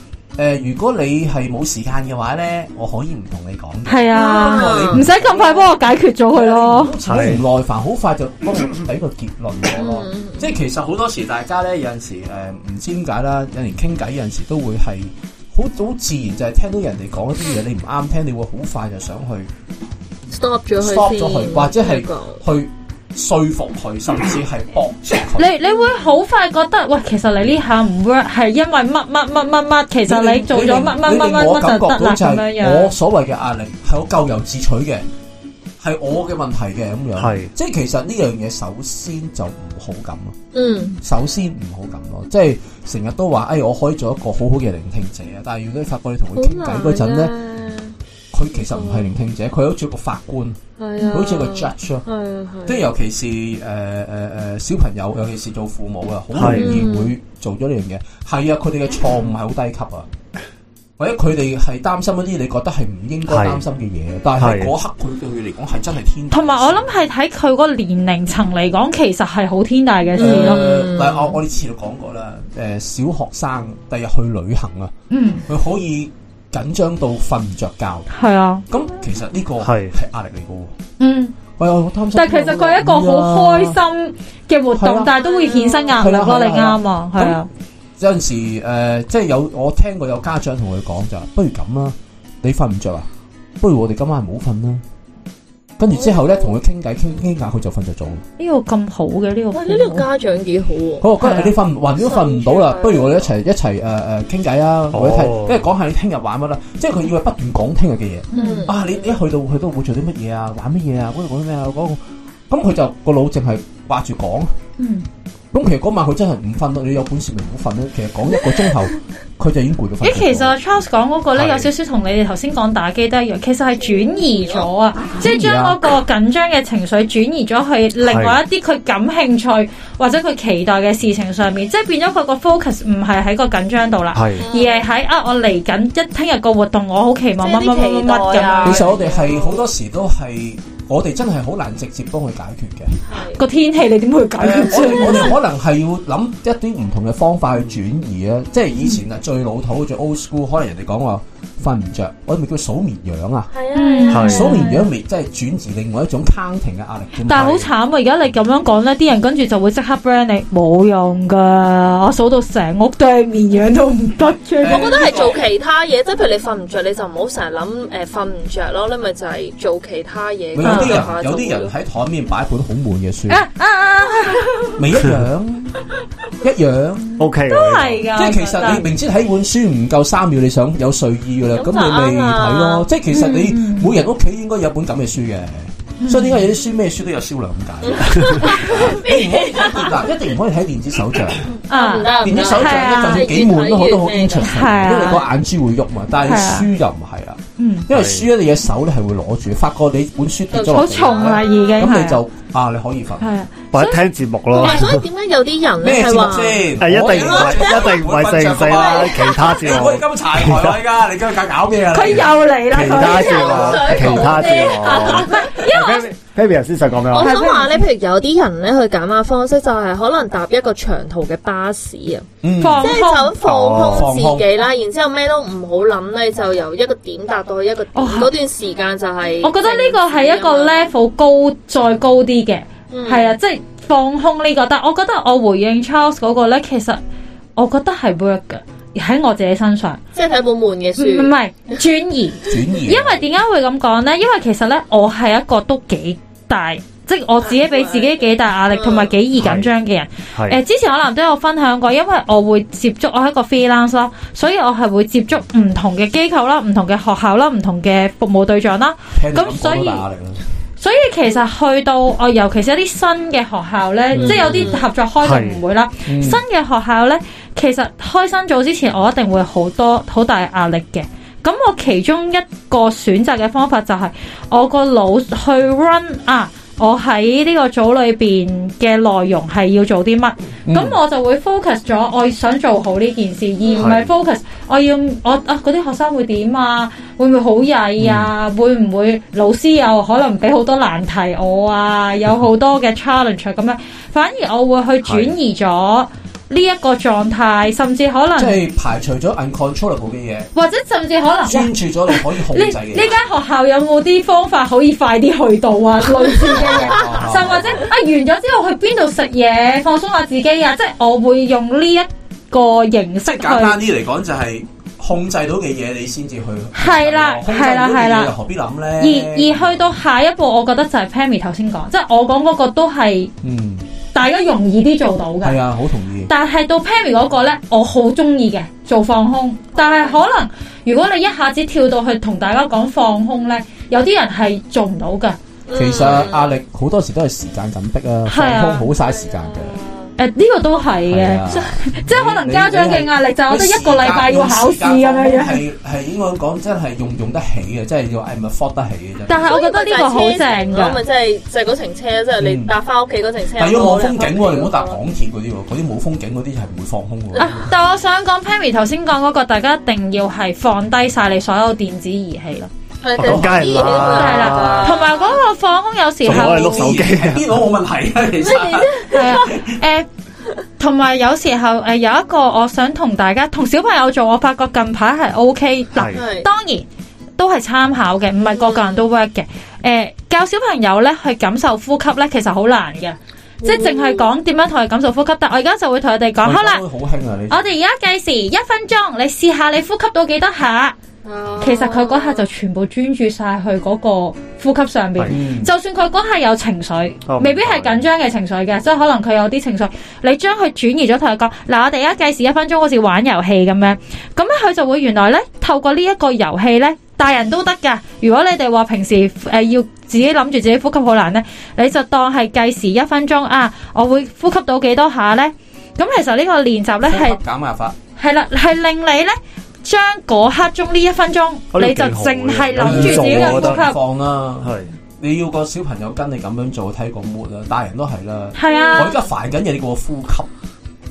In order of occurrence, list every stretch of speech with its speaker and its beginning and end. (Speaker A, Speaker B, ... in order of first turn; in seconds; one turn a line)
Speaker A: 0.4-5.7
Speaker B: 3.9-6.9
Speaker C: 4.1-5.1
Speaker A: 6.3-19.5
Speaker D: 7.1-7.4
Speaker C: 9.7-10.5
Speaker C: 20.3-22.4
Speaker A: 20.8-25.5
Speaker B: 25.4-32.9
Speaker C: 25.7-25.9
Speaker A: 30.1-35.0
Speaker A: 35.8-40.4
Speaker D: 37.2-37.5
Speaker C: 40.5-40.9
Speaker A: 41.0-47.3
Speaker C: 46.4-47.9
Speaker A: 48.3-50.6
Speaker C: 48.6-49.1
Speaker C: 50.8-52.9
Speaker A: 51.1-52.1
Speaker A: 52.6-60.1
Speaker D: 56.3-56.9
Speaker C: 56.5-57.1
Speaker A: 61.0-66.9
Speaker D: 63.3-63.6
Speaker D: 64.4-64.7
Speaker B: 66.3-70.6
Speaker C: 70.1-71.4
Speaker A: 70.2-74.9
Speaker B: 75.1-75.4
Speaker A: 75.5-78.1
Speaker B: 78.1-78.6
Speaker A: 78.7-80.7
Speaker D: 79.6-79.9
Speaker B: 81.0-81.4
Speaker A: 81.6-83.8
Speaker B: 82.1-87.5
Speaker A: 84.8-85.1
Speaker C: 85.2-86.0
Speaker A: 85.9-87.4
Speaker A: 88.0-93.1
Speaker A: 93.6-94.8
Speaker A: 95.8-98.2
Speaker C: 95.9-96.6
Speaker B: 98.4-100.1
Speaker C: 99.5-101.1
Speaker A: 101.0-114.5
Speaker B: 101.2-101.5
Speaker C: 101.9-103.3
Speaker D: 104.9-105.6
Speaker B: 108.3-108.7
Speaker C: 108.3-108.8
Speaker B: 114.8-115.0
Speaker A: 115.5-120.5
Speaker B: 120.0-138.9
Speaker D: 121.4-121.7
Speaker C: 124.0-124.7
Speaker A: 125.2-125.8
Speaker D: 128.1-128.4
Speaker D: 134.1-134.4
Speaker C: 134.4-134.9
Speaker C: 137.4-139.6
Speaker A: 138.6-143.0
Speaker C: 143.1-143.4
Speaker B: 143.3-145.4
Speaker A: 144.4-153.5
Speaker C: 153.5-154.7
Speaker B: 153.7-154.9
Speaker A: 154.1-157.7
Speaker D: 154.1-154.4
Speaker B: 157.3-165.0
Speaker D: 157.3-157.6
Speaker A: 164.6-165.4
Speaker C: 164.7-171.7
Speaker A: 170.5-173.4
Speaker B: 170.6-171.1
Speaker B: 173.3-174.8
Speaker A: 174.8-175.8
Speaker A: 176.4-177.2
Speaker D: 177.2-178.0
Speaker B: 177.4-178.9
Speaker A: 178.2-191.5
Speaker C: 181.5-182.9
Speaker B: 183.1-183.9
Speaker B: 186.0-186.5
Speaker C: 187.8-190.1
Speaker B: 188.4-188.7
Speaker C: 191.5-194.5
Speaker B: 191.7-193.3
Speaker A: 192.1-203.3
Speaker B: 194.4-195.3
Speaker B: 196.2-196.7
Speaker B: 197.6-197.9
Speaker D: 197.9-198.3
Speaker C: 200.5-201.7
Speaker B: 200.7-202.2
Speaker B: 203.2-204.0
Speaker D: 203.7-205.1
Speaker C: 204.5-208.1
Speaker B: 204.6-204.8
Speaker A: 205.8-214.3
Speaker D: 206.8-210.8
Speaker C: 208.6-209.8
Speaker B: 211.9-216.1
Speaker D: 212.8-217.4
Speaker C: 213.0-215.6
Speaker C: 217.1-222.3
Speaker B: 217.1-217.8
Speaker A: 222.4-224.5
Speaker B: 222.6-223.4
Speaker C: 222.8-230.9
Speaker D: 223.4-224.1
Speaker B: 227.9-228.3
Speaker B: 229.4-237.0
Speaker C: 232.9-233.3
Speaker B: 237.6-240.0
Speaker C: 240.1-241.3
Speaker B: 241.0-260.0
Speaker A: 242.5-243.2
Speaker C: 247.4-248.2
Speaker C: 248.7-249.1
Speaker D: 249.4-249.7
Speaker A: 259.1-260.4
Speaker B: 260.8-298.6
Speaker A: 264.1-264.7
Speaker C: 264.2-264.9
Speaker D: 265.2-265.6
Speaker A: 266.1-266.4
Speaker A: 280.6-281.0
Speaker C: 283.6-283.9
Speaker D: 283.8-284.1
Speaker D: 295.0-295.3
Speaker A: 298.4-300.5
Speaker B: 300.6-313.8
Speaker A: 301.4-303.1
Speaker A: 306.4-307.9
Speaker C: 306.5-307.2
Speaker A: 313.2-319.9
Speaker B: 316.7-318.3
Speaker B: 319.0-323.3
Speaker A: 323.4-323.8
Speaker B: 324.1-325.6
Speaker A: 325.4-326.3
Speaker B: 326.3-335.4
Speaker C: 329.8-330.2
Speaker C: 335.7-336.5
Speaker A: 335.8-339.8
Speaker B: 338.3-338.9
Speaker C: 338.9-340.1
Speaker B: 340.2-345.6
Speaker A: 341.1-349.5
Speaker B: 349.3-351.0
Speaker C: 349.4-355.0
Speaker A: 352.4-352.7
Speaker A: 353.6-357.7
Speaker B: 357.4-362.7
Speaker C: 363.0-365.4
Speaker D: 363.2-365.0
Speaker A: 363.2-364.2
Speaker B: 364.0-366.8
Speaker D: 366.2-367.4
Speaker A: 366.2-369.8
Speaker C: 368.4-369.5
Speaker B: 369.1-370.1
Speaker B: 370.8-376.9
Speaker D: 375.9-376.2
Speaker C: 376.1-376.5
Speaker B: 377.4-386.8
Speaker C: 378.5-379.0
Speaker C: 383.6-384.2
Speaker A: 386.4-387.6
Speaker B: 387.5-390.9
Speaker C: 391.2-392.4
Speaker B: 391.6-417.4
Speaker A: 395.3-395.7
Speaker D: 397.3-398.0
Speaker A: 417.1-417.9
Speaker B: 418.2-424.0
Speaker D: 421.7-423.9
Speaker A: 422.8-430.5
Speaker D: 424.6-424.9
Speaker B: 428.6-429.2
Speaker C: 428.7-429.2